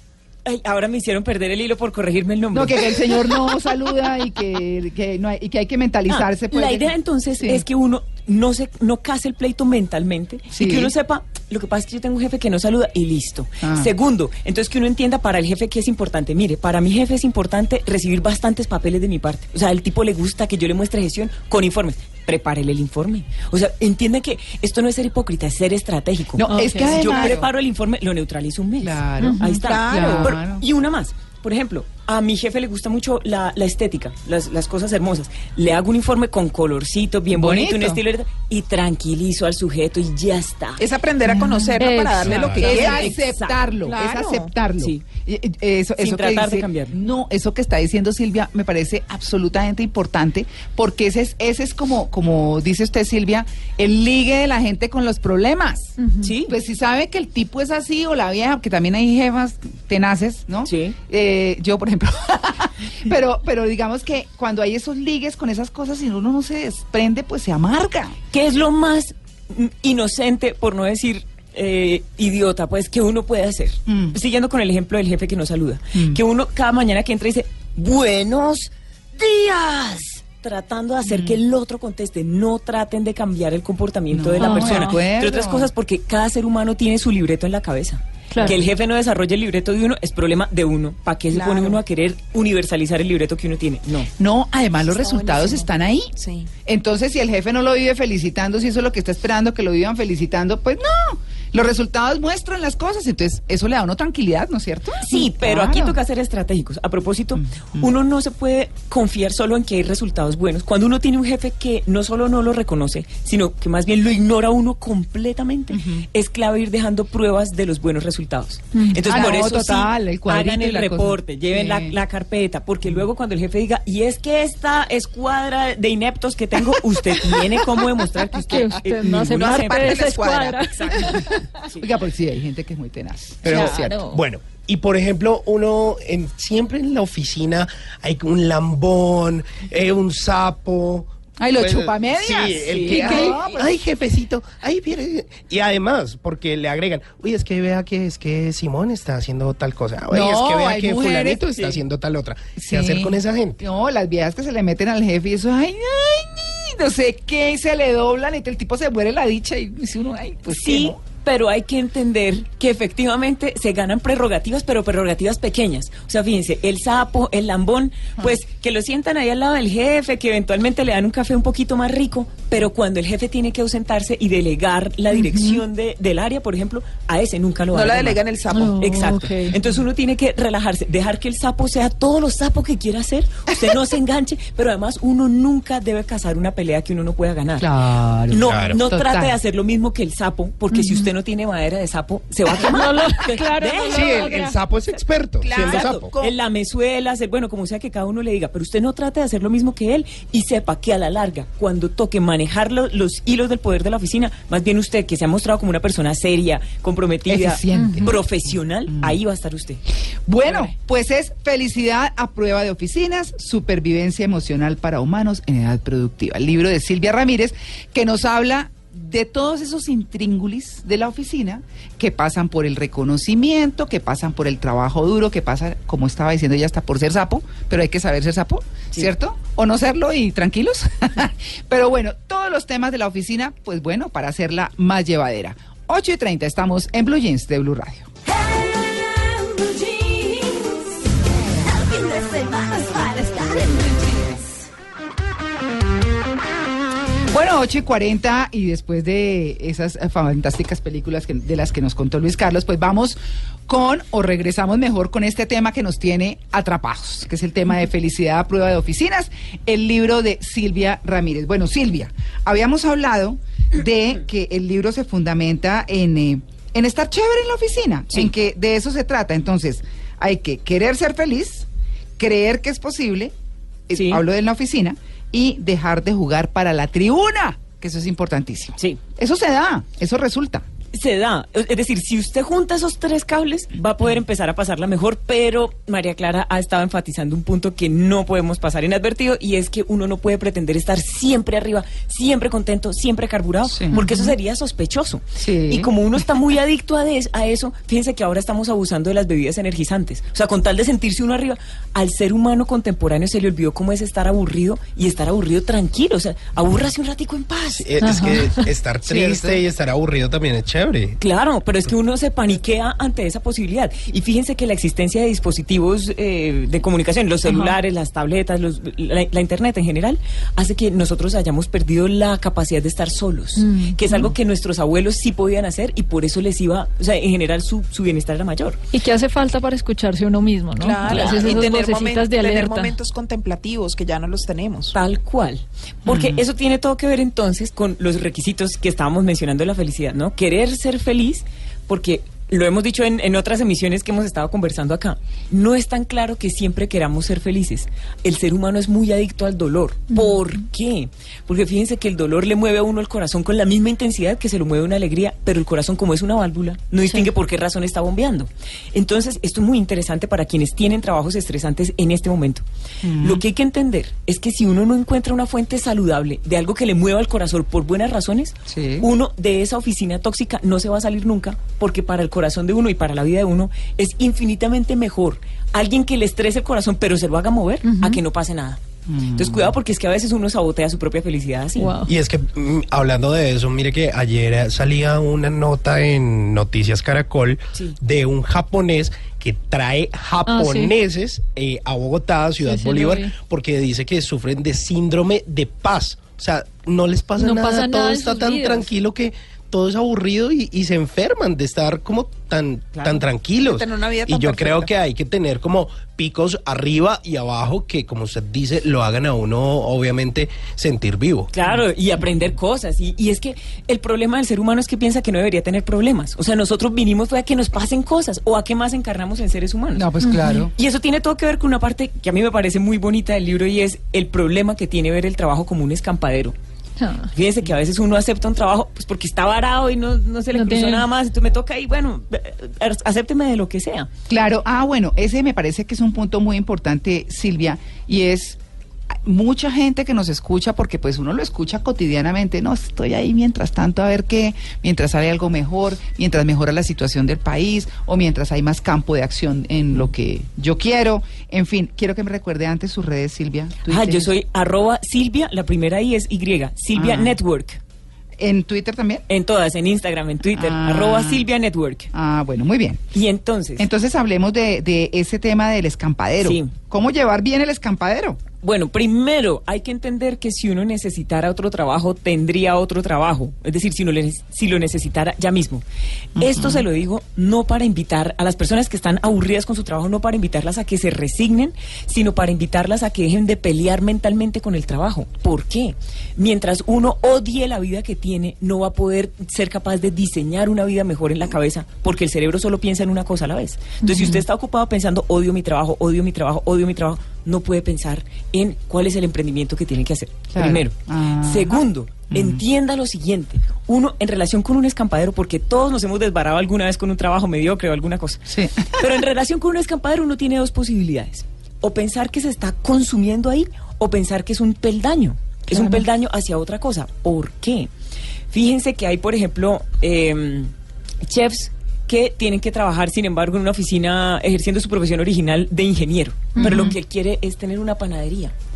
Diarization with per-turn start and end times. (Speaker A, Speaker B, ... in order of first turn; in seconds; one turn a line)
Speaker A: 0.4-3.2
Speaker B: 2.5-7.6
Speaker A: 6.1-40.8
Speaker B: 10.5-10.9
Speaker B: 13.6-13.9
Speaker B: 26.4-27.5
Speaker C: 26.5-27.3
Speaker B: 28.8-30.6
Speaker D: 29.5-30.3
Speaker B: 37.3-38.0
Speaker D: 40.8-43.1
Speaker C: 41.3-42.5
Speaker E: 42.2-42.6
Speaker A: 42.4-44.2
Speaker B: 42.6-68.2
Speaker D: 44.0-44.5
Speaker A: 44.8-45.0
Speaker A: 46.0-46.9
Speaker C: 56.0-56.3
Speaker A: 56.2-56.5
Speaker A: 60.6-61.0
Speaker A: 68.3-94.1
Speaker B: 73.8-74.2
Speaker B: 75.9-76.2
Speaker B: 81.1-81.4
Speaker B: 84.1-85.7
Speaker C: 84.4-85.0
Speaker D: 91.3-91.8
Speaker B: 94.2-96.1
Speaker D: 94.8-96.5
Speaker B: 96.6-106.0
Speaker A: 105.0-131.9
Speaker B: 107.3-107.9
Speaker B: 115.7-116.0
Speaker C: 118.7-119.3
Speaker B: 119.0-122.0
Speaker C: 128.5-131.4
Speaker D: 129.3-131.2
Speaker B: 131.8-133.9
Speaker E: 133.4-153.6
Speaker C: 133.5-134.2
Speaker B: 141.4-143.7
Speaker A: 142.6-143.5
Speaker B: 150.1-151.4
Speaker A: 151.5-151.8
Speaker B: 152.6-161.0
Speaker A: 160.5-178.2
Speaker C: 175.1-175.6
Speaker D: 177.7-179.1
Speaker C: 178.5-179.5
Speaker A: 178.8-187.7
Speaker B: 187.6-189.4
Speaker A: 188.3-194.5
Speaker E: 188.4-188.8
Speaker C: 190.7-191.1
Speaker C: 192.6-194.6
Speaker E: 193.9-196.1
Speaker D: 195.4-196.3
Speaker A: 195.5-209.8
Speaker B: 207.3-208.2
Speaker C: 207.7-208.1
Speaker B: 208.9-209.2
Speaker B: 210.3-238.1
Speaker A: 210.4-210.7
Speaker B: 247.3-271.7
Speaker B: 272.2-273.3
Speaker B: 273.9-280.6
Speaker A: 273.9-274.2
Speaker A: 280.9-308.1
Speaker B: 293.6-294.0
Speaker C: 293.9-294.3
Speaker B: 295.4-295.9
Speaker E: 307.8-311.2
Speaker C: 308.0-308.6
Speaker B: 309.1-309.6
Speaker A: 311.2-328.8
Speaker C: 317.5-317.7
Speaker C: 323.6-324.3
Speaker C: 328.9-332.9
Speaker D: 330.8-334.9
Speaker A: 331.0-331.6
Speaker A: 334.9-362.6
Speaker B: 336.1-336.4
Speaker C: 350.1-350.4
Speaker B: 363.0-363.4
Speaker A: 363.2-381.9
Speaker B: 368.7-369.1
Speaker C: 377.8-378.2
Speaker B: 379.1-379.7
Speaker C: 381.8-382.1
Speaker E: 382.0-411.5
Speaker C: 390.5-390.9
Speaker C: 392.6-393.3
Speaker C: 397.4-398.9
Speaker A: 402.9-403.2
Speaker D: 403.6-404.9
Speaker A: 411.5-420.1
Speaker B: 419.9-420.7
Speaker C: 420.2-420.7
Speaker A: 420.7-426.5
Speaker C: 427.0-427.3
Speaker A: 427.3-434.1
Speaker C: 430.5-431.1
Speaker B: 434.3-438.6
Speaker B: 439.1-454.3
Speaker A: 453.8-457.8
Speaker B: 456.9-457.4
Speaker B: 458.4-459.2
Speaker A: 459.3-462.1
Speaker B: 460.5-461.4
Speaker B: 462.1-463.0
Speaker A: 463.1-463.9
Speaker B: 463.8-468.4
Speaker A: 466.4-466.7
Speaker A: 468.6-475.8
Speaker B: 476.4-476.9
Speaker A: 476.4-517.9
Speaker C: 494.0-494.3
Speaker B: 494.1-494.4
Speaker B: 500.5-501.8
Speaker B: 502.3-502.6
Speaker B: 508.5-509.0
Speaker B: 515.7-516.0
Speaker A: 518.5-520.7
Speaker A: 521.2-528.5
Speaker B: 526.5-526.9
Speaker C: 526.6-526.9